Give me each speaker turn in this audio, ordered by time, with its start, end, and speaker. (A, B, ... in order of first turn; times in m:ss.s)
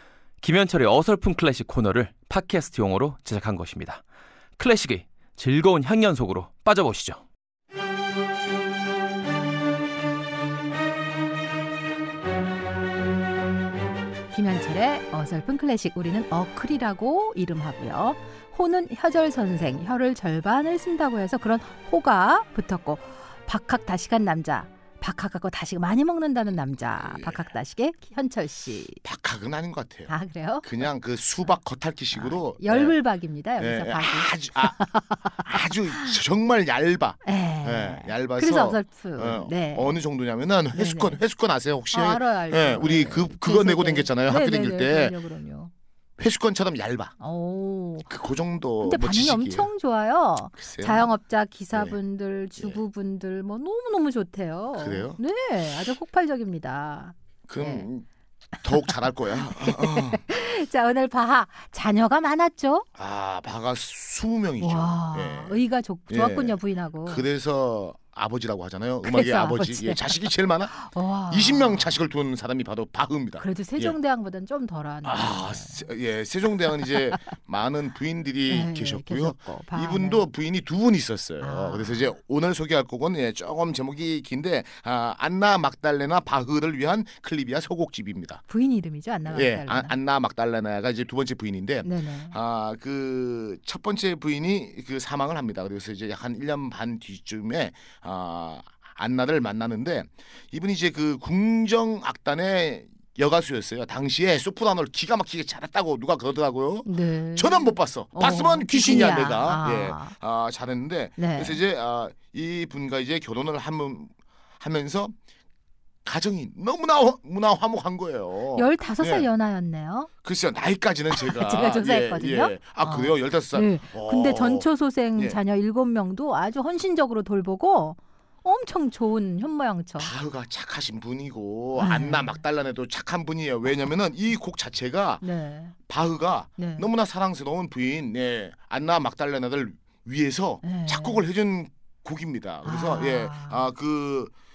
0:00.4-0:04.0 A
0:04.6-0:07.2 A
0:14.3-0:29.0 B
0:26.8-0:27.5 C
0:29.0-0:30.1 C
0:30.1-0:30.8 B
0:30.6-0:33.0 C
0:32.1-0:36.2 B
0:33.6-0:45.2 C
0:37.2-0:40.0 B
0:40.7-0:41.2 B
0:41.9-0:45.7 B
0:46.2-0:47.1 C
0:47.2-0:48.2 B
0:48.1-0:49.7 C
0:48.8-0:57.9 B
0:50.6-0:51.1 C
0:51.7-0:52.0 C
0:54.7-0:55.2 C
0:57.5-0:58.0 C
0:58.6-1:02.9 B
0:58.6-1:00.2 C
1:03.0-1:10.7 C
1:04.6-1:07.3 B
1:09.0-1:12.0 B
1:11.3-1:14.0 C
1:13.4-1:15.9 B
1:15.0-1:28.4 C
1:18.5-1:20.2 B
1:21.4-1:22.1 B
1:28.5-1:29.9 B
1:29.3-1:55.1 C
1:31.8-1:32.4 B
1:46.8-1:50.1 B
1:51.2-1:51.6 B
1:56.0-1:59.3 C
1:58.5-2:00.1 B
2:00.2-2:05.4 C
2:01.1-2:10.1 B
2:10.0-2:15.2 C
2:11.8-2:12.4 B
2:15.2-2:15.7 B
2:15.9-2:24.3 C
2:16.6-2:16.9 B
2:20.6-2:21.2 B
2:22.6-2:23.7 B